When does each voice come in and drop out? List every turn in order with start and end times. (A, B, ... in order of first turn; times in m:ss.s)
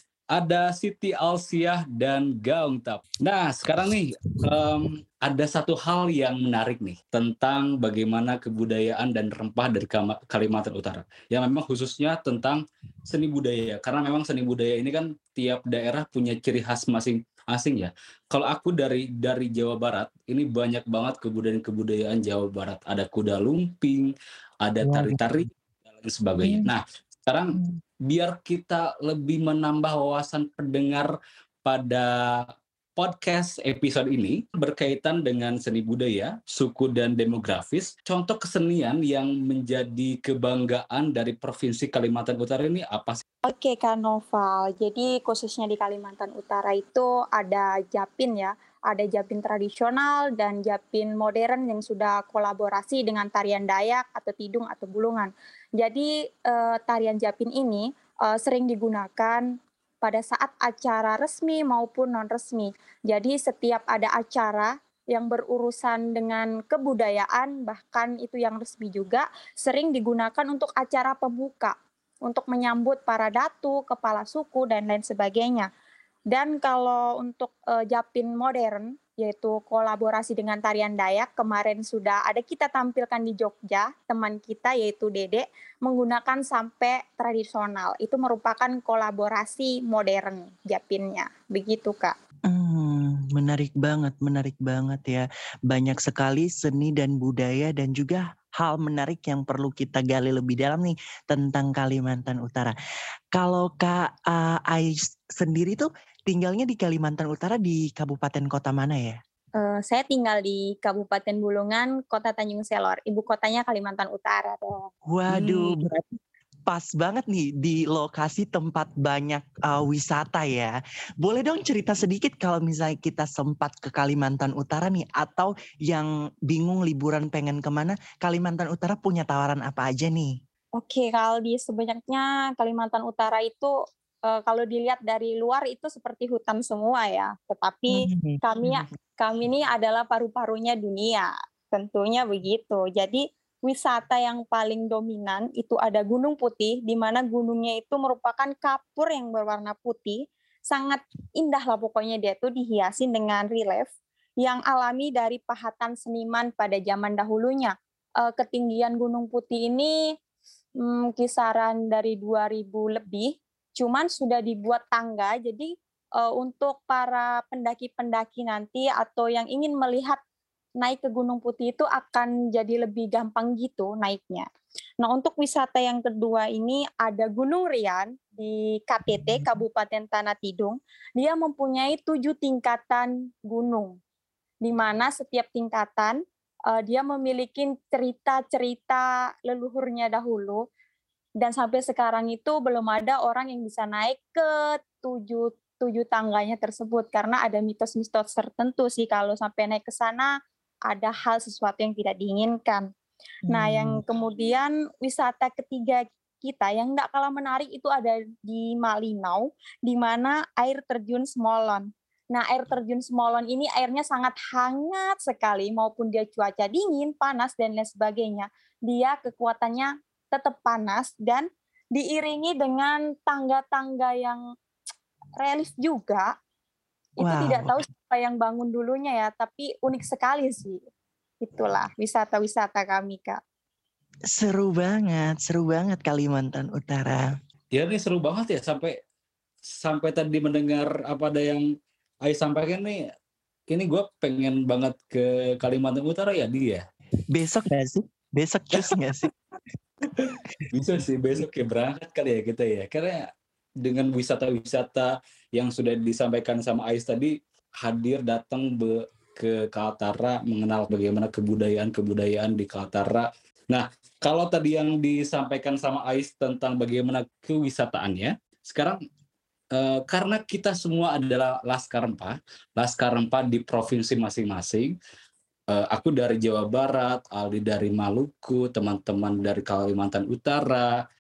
0:00.4-0:24.1 A
0:24.6-0:31.1 A
0:24.8-0:25.3 B
0:26.4-0:26.7 B
0:31.6-0:43.2 A
0:43.4-0:59.5 C
1:00.0-1:15.7 C
1:16.3-1:32.2 C
1:32.5-1:42.7 B
1:43.4-1:49.2 B
1:49.6-1:54.9 C
1:55.1-1:56.0 B
1:56.7-2:10.4 B
2:10.8-2:13.8 C
2:14.3-2:40.0 C
2:17.9-2:18.8 B
2:40.8-2:50.2 C
2:50.8-2:54.5 C
2:55.0-3:04.0 C
3:04.6-3:10.7 C
3:11.4-3:20.3 C
3:20.9-3:22.9 C
3:23.5-3:44.4 C
3:23.5-3:24.0 B
3:45.4-3:46.3 C
3:47.2-3:50.8 C
3:47.2-3:47.8 B
3:51.4-3:53.4 C
3:54.3-3:57.3 B
3:57.7-3:59.0 A
3:59.6-4:01.7 A
4:02.3-4:03.0 A
4:03.7-4:06.8 A
4:07.3-4:09.3 B
4:10.7-4:13.3 A
4:13.8-4:29.0 A
4:29.7-4:35.0 A
4:35.7-4:41.0 A